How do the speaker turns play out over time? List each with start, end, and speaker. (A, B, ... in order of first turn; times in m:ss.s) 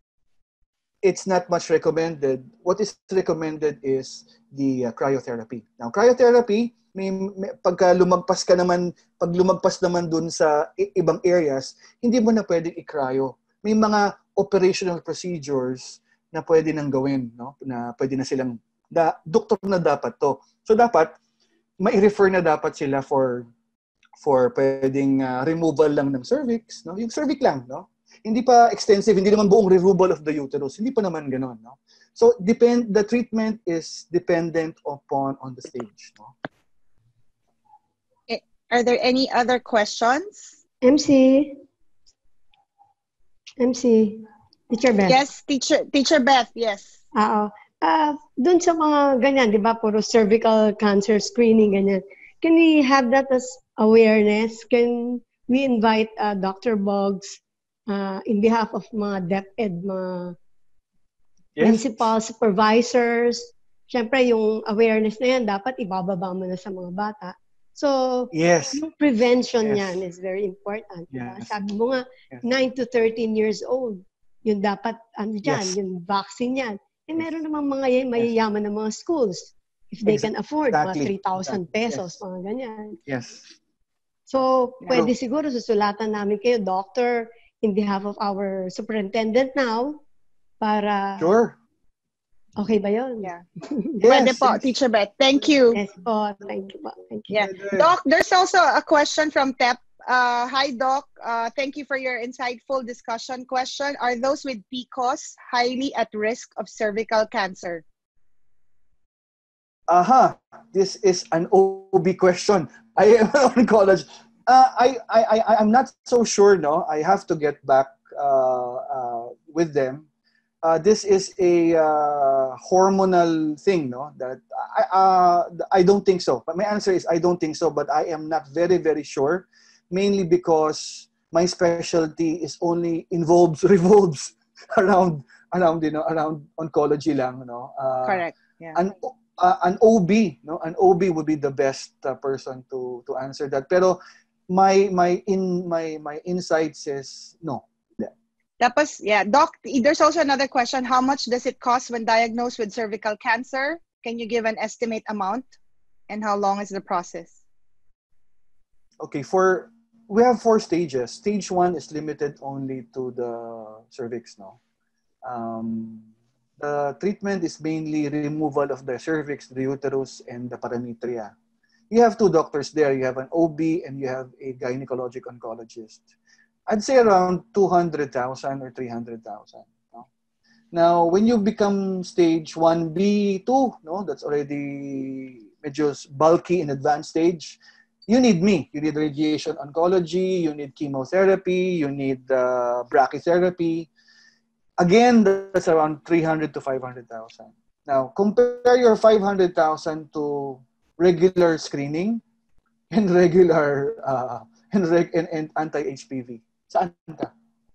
0:01.0-0:21.2 A
0:21.8-0:23.5 A
0:24.2-0:36.3 A
0:38.3-0:40.5 B
0:40.8-0:41.5 C
0:43.6-0:45.2 C
0:45.0-0:47.0 B
0:47.1-1:00.3 C
1:01.6-1:02.0 A
1:01.6-1:23.0 C
1:08.3-1:08.8 A
1:09.6-1:10.0 A
1:11.1-1:11.6 A
1:15.4-1:15.8 A
1:20.0-1:22.2 A
1:23.1-1:23.4 A
1:24.3-1:30.0 C
1:30.6-1:31.3 C
1:31.2-1:31.6 A
1:32.6-1:34.0 C
1:34.0-1:34.7 A
1:34.0-1:35.8 B
1:35.7-1:37.3 C
1:37.3-1:47.8 B
1:37.4-1:37.9 A
1:49.9-2:00.0 A
2:00.6-2:28.1 A
2:18.0-2:18.8 B
2:28.6-2:35.5 B
2:36.1-2:37.4 B
2:39.0-2:44.6 A
2:45.2-2:46.1 A
2:46.6-2:51.3 A
2:51.9-2:56.1 A
2:56.7-3:00.1 A
3:00.7-3:13.9 A
3:14.8-3:22.2 A
3:22.9-3:27.3 A